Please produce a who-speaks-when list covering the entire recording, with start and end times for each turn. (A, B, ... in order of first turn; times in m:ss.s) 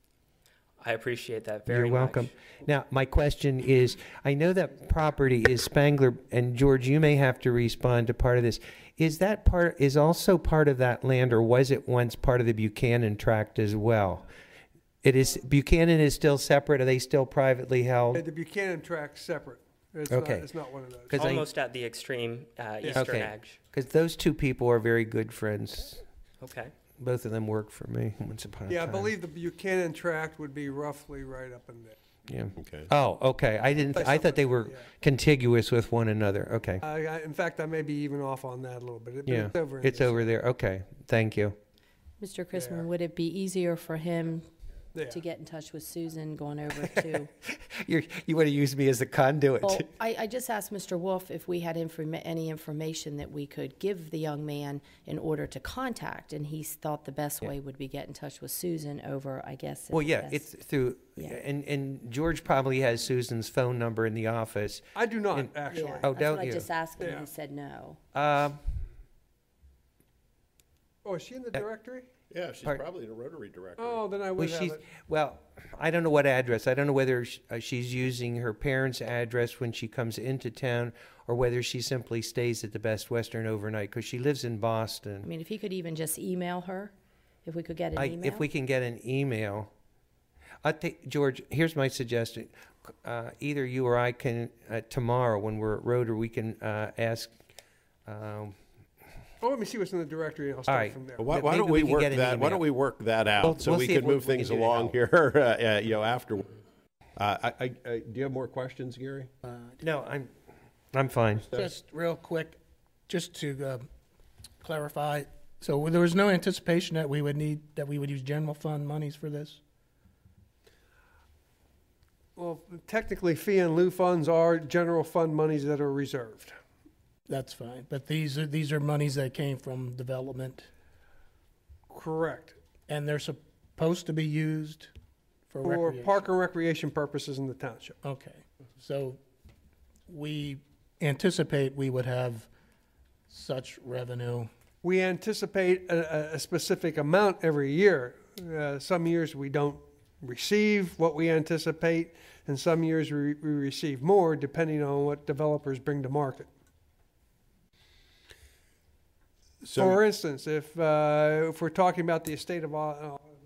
0:00.8-0:02.3 A
0:01.7-0:14.3 B
0:15.0-0:18.2 B
0:18.1-0:21.3 C
0:20.1-0:20.5 B
0:21.1-0:21.4 B
0:21.2-0:23.6 A
0:22.8-0:23.1 C
0:22.9-0:26.0 B
0:26.4-0:26.7 A
0:27.0-0:29.1 B
0:28.7-0:32.0 C
0:32.3-0:36.8 B
0:32.6-0:32.9 D
0:33.9-0:34.8 C
0:36.8-0:40.4 C
0:39.3-0:41.6 B
0:42.2-0:44.5 E
0:42.5-0:42.9 C
0:44.9-0:45.2 C
0:45.1-0:47.3 E
0:47.4-0:49.9 B
0:49.6-1:00.5 E
0:59.9-1:06.7 B
1:01.1-1:01.4 E
1:05.0-1:06.1 C
1:05.7-1:08.0 E
1:07.0-1:07.3 C
1:08.1-1:08.6 B
1:11.0-1:12.1 C
1:12.3-1:14.0 D
1:13.8-1:14.8 C
1:14.4-1:25.3 B
1:25.2-1:26.9 E
1:27.4-1:28.5 E
1:28.0-1:29.7 B
1:30.6-1:37.3 B
1:38.1-1:38.6 B
1:39.4-1:41.3 C
1:40.7-1:42.6 B
1:41.2-1:46.6 D
1:43.4-1:45.0 B
1:47.2-1:49.3 D
1:49.4-1:49.8 F
1:49.8-1:50.3 B
1:50.9-1:51.5 B
1:51.5-1:52.6 F
1:53.1-1:53.9 F
1:54.6-1:59.6 F
2:02.4-2:06.6 C
2:07.3-2:10.7 F
2:11.9-2:12.6 C
2:12.9-2:14.9 F
2:15.5-2:16.2 F
2:15.6-2:18.0 C
2:18.0-2:19.2 F
2:20.1-2:22.5 F
2:23.3-2:24.5 F
2:24.8-2:36.5 C
2:39.6-2:43.2 C
2:39.7-2:40.0 D